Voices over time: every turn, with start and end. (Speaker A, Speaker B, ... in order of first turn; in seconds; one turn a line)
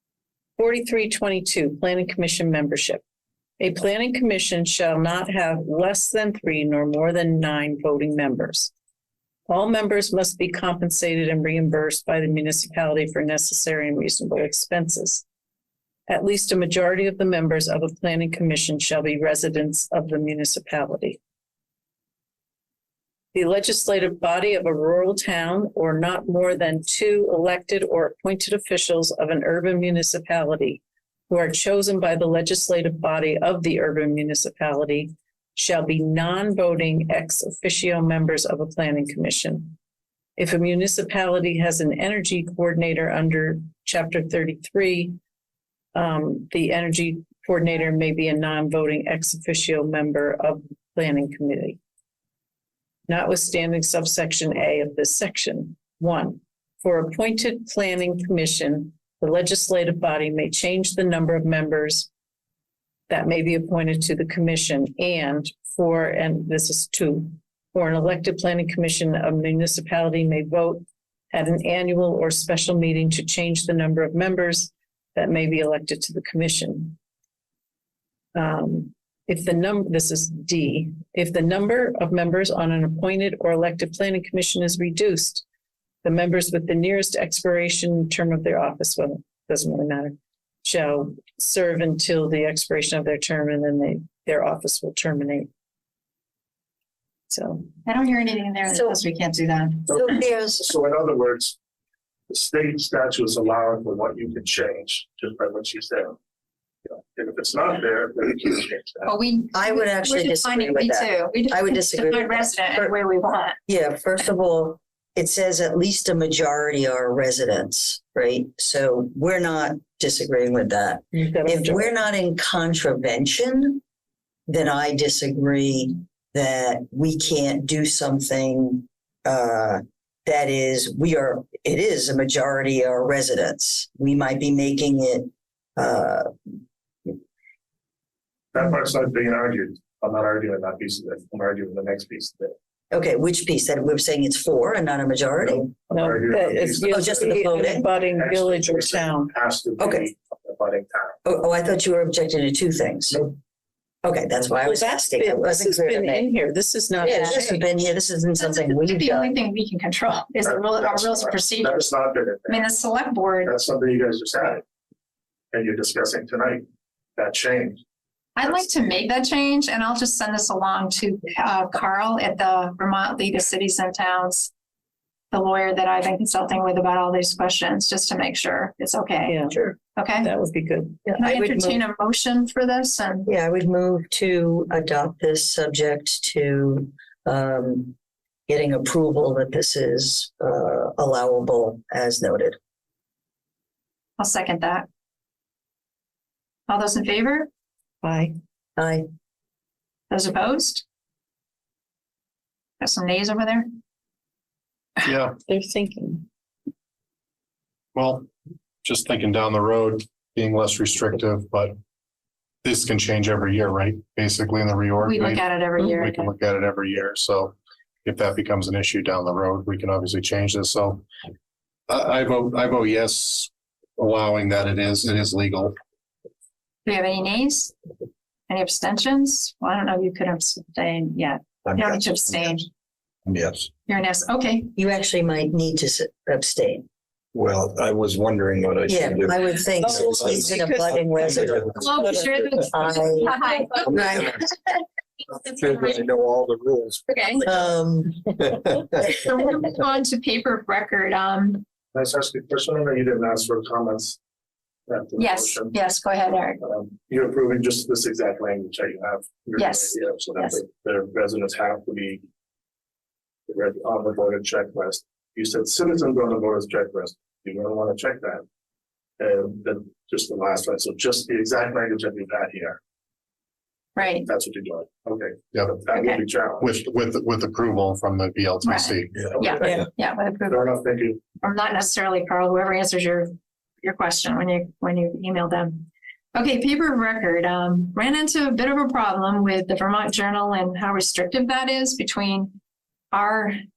Speaker A: 0.6-3.0
Speaker A: 3.6-8.7
Speaker A: 9.5-15.2
Speaker A: 16.1-21.2
Speaker A: 23.3-39.8
Speaker A: 40.4-45.2
Speaker A: 45.9-51.8
Speaker A: 53.1-62.1
Speaker A: 63.1-77.0
Speaker A: 78.3-85.5
Speaker A: 86.0-95.5
Speaker A: 97.3-97.7
Speaker B: 97.9-99.9
Speaker C: 99.9-101.6
Speaker D: 99.9-100.7
Speaker C: 102.3-106.2
Speaker C: 106.9-109.1
Speaker B: 109.1-113.6
Speaker D: 109.5-113.0
Speaker D: 113.7-123.8
Speaker A: 121.1-122.0
Speaker D: 124.5-136.3
Speaker C: 138.5-142.5
Speaker D: 142.9-145.8
Speaker C: 145.4-147.4
Speaker A: 145.9-149.3
Speaker D: 146.9-147.9
Speaker C: 148.0-151.2
Speaker D: 149.8-150.1
Speaker D: 151.2-153.3
Speaker C: 153.1-153.3
Speaker D: 154.0-156.3
Speaker A: 154.6-157.6
Speaker D: 157.0-159.3
Speaker B: 158.4-161.9
Speaker C: 160.4-162.7
Speaker B: 162.5-163.5
Speaker C: 163.4-164.6
Speaker C: 165.5-166.6
Speaker C: 167.2-167.8
Speaker B: 168.4-174.5
Speaker B: 175.3-179.4
Speaker A: 179.3-181.0
Speaker D: 179.5-179.8
Speaker B: 180.0-180.3
Speaker D: 181.1-181.8
Speaker B: 181.2-183.3
Speaker D: 183.3-188.0
Speaker D: 188.5-192.6
Speaker B: 194.2-194.9
Speaker B: 196.7-197.5
Speaker A: 198.0-198.3
Speaker D: 198.8-199.1
Speaker B: 200.1-200.8
Speaker B: 202.8-203.7
Speaker E: 205.0-205.4
Speaker A: 205.5-206.3
Speaker E: 207.9-208.3
Speaker E: 208.8-211.8
Speaker E: 212.6-221.1
Speaker B: 215.0-216.3
Speaker E: 221.9-225.8
Speaker B: 226.9-227.8
Speaker B: 228.5-232.7
Speaker F: 231.7-232.6
Speaker F: 233.3-233.7
Speaker B: 233.9-234.7
Speaker D: 234.8-236.9
Speaker F: 237.3-242.5
Speaker D: 238.9-244.4
Speaker A: 239.8-242.4
Speaker B: 241.8-244.3
Speaker F: 243.9-244.4
Speaker B: 245.3-246.1
Speaker F: 245.6-247.7
Speaker B: 247.1-247.4
Speaker D: 247.5-248.3
Speaker F: 248.5-249.1
Speaker B: 249.1-251.6
Speaker C: 251.9-254.2
Speaker C: 254.9-255.8
Speaker B: 255.2-256.6
Speaker C: 256.6-262.2
Speaker B: 259.6-260.6
Speaker C: 263.5-268.4
Speaker C: 269.2-272.8
Speaker B: 274.0-274.3
Speaker C: 274.1-276.8
Speaker E: 275.5-275.8
Speaker B: 275.9-276.2
Speaker E: 276.6-279.5
Speaker B: 278.6-280.6
Speaker F: 279.2-279.8
Speaker C: 279.2-279.8
Speaker C: 280.5-281.2
Speaker B: 281.4-292.6
Speaker B: 293.1-293.6